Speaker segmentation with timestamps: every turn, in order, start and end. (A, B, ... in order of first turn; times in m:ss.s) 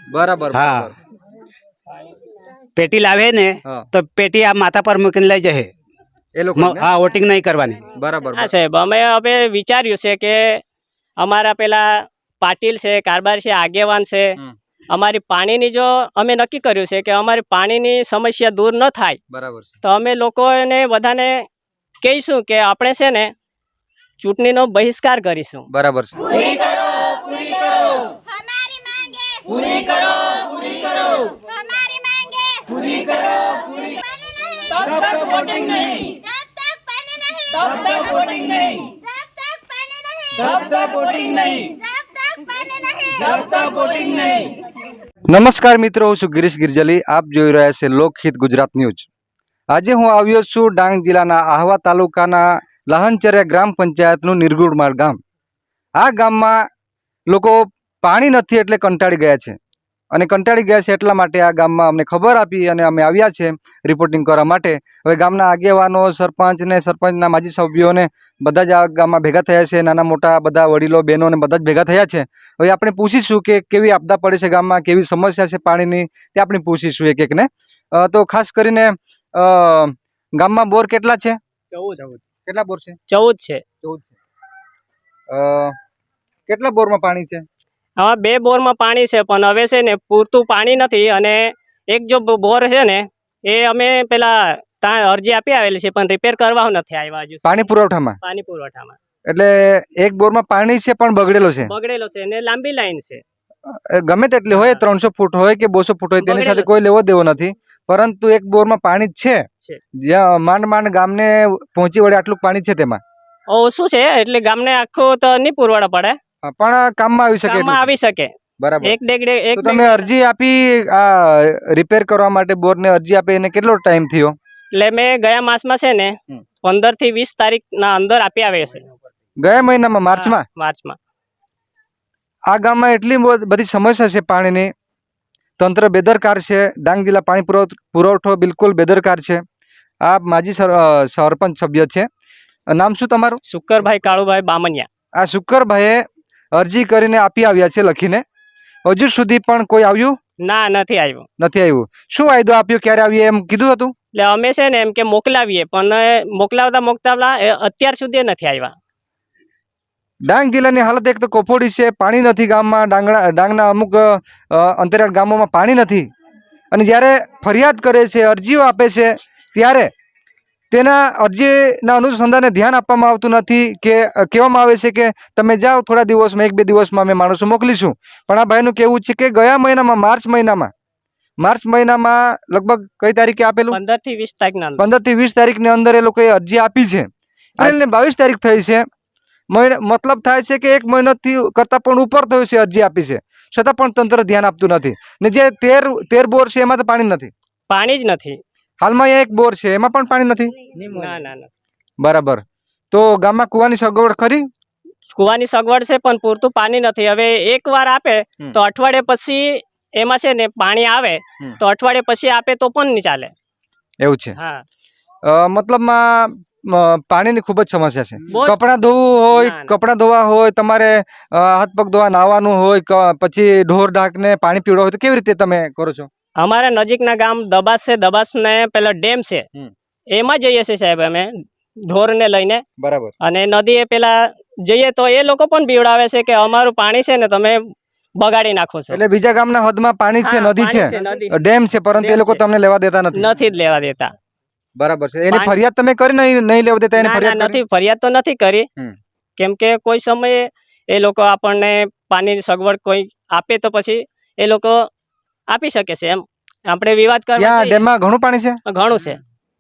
0:00.1-0:01.0 A
0:00.5-0:00.9 B
0:02.8-0:05.7 B
0:06.3-0:06.9 A
0:06.6-0:07.8 B
0:07.9-0:08.5 A
0:08.3-0:10.6 C
0:11.2-0:14.4 C
0:14.9-0:19.2 C
0:19.3-0:19.7 A
0:19.8-0:21.5 C
0:22.0-0:23.3 C
0:24.2-0:25.7 C
0:25.7-0:26.2 A
0:34.8-0:36.1 C
0:37.8-0:38.7 C
0:43.6-0:44.4 C
0:45.3-0:49.1 A
0:49.7-0:55.2 A
0:56.0-0:56.6 A
0:57.3-0:59.6 A
1:00.1-1:21.4 A
1:21.7-1:22.2 C
1:22.4-1:23.0 A
1:23.1-1:23.6 C
1:23.8-1:24.1 A
1:25.3-1:25.8 A
1:26.5-1:27.4 A
1:28.0-1:37.7 C
1:37.4-1:38.2 A
1:38.2-1:39.0 C
1:39.3-1:41.7 A
1:41.6-1:43.2 C
1:43.7-1:49.4 A
1:44.5-1:44.8 C
1:46.2-1:46.7 C
1:50.0-1:53.0 A
1:53.5-1:56.2 C
1:56.4-1:57.9 A
1:57.4-1:58.3 C
1:58.6-1:59.0 A
1:58.8-2:00.1 C
1:59.5-2:04.4 A
2:04.7-2:08.9 C
2:09.4-2:10.4 A
2:10.1-2:11.0 C
2:12.5-2:14.7 A
2:15.6-2:19.4 A
2:20.0-2:22.1 A
2:22.7-2:23.4 A
2:23.4-2:24.9 C
2:25.2-2:28.2 A
2:28.8-2:30.2 A
2:30.4-2:31.2 C
2:31.4-2:33.9 A
2:34.1-2:38.7 C
2:40.2-2:46.1 A
2:46.7-2:49.9 A
2:50.7-3:00.7 A
3:01.4-3:03.8 A
3:03.7-3:04.8 C
3:04.8-3:08.8 A
3:09.5-3:17.3 A
3:17.7-3:18.4 C
3:18.8-3:20.5 A
3:20.9-3:21.5 C
3:22.0-3:24.5 A
3:25.1-3:33.3 C
3:34.0-3:34.3 A
3:34.4-3:34.6 C
3:35.2-3:46.1 A
3:38.3-3:38.6 C
3:39.3-3:39.7 C
3:46.4-3:49.4 C
3:50.1-3:52.6 C
3:52.8-3:53.1 A
3:53.2-3:59.0 C
3:58.9-4:03.2 A
4:00.2-4:01.4 C
4:02.0-4:02.4 C
4:03.1-4:04.1 C
4:04.8-4:07.6 A
4:05.3-4:05.6 C
4:07.0-4:08.7 C
4:09.4-4:14.9 C
4:15.5-4:17.8 C
4:17.4-4:18.6 A
4:18.6-4:19.2 C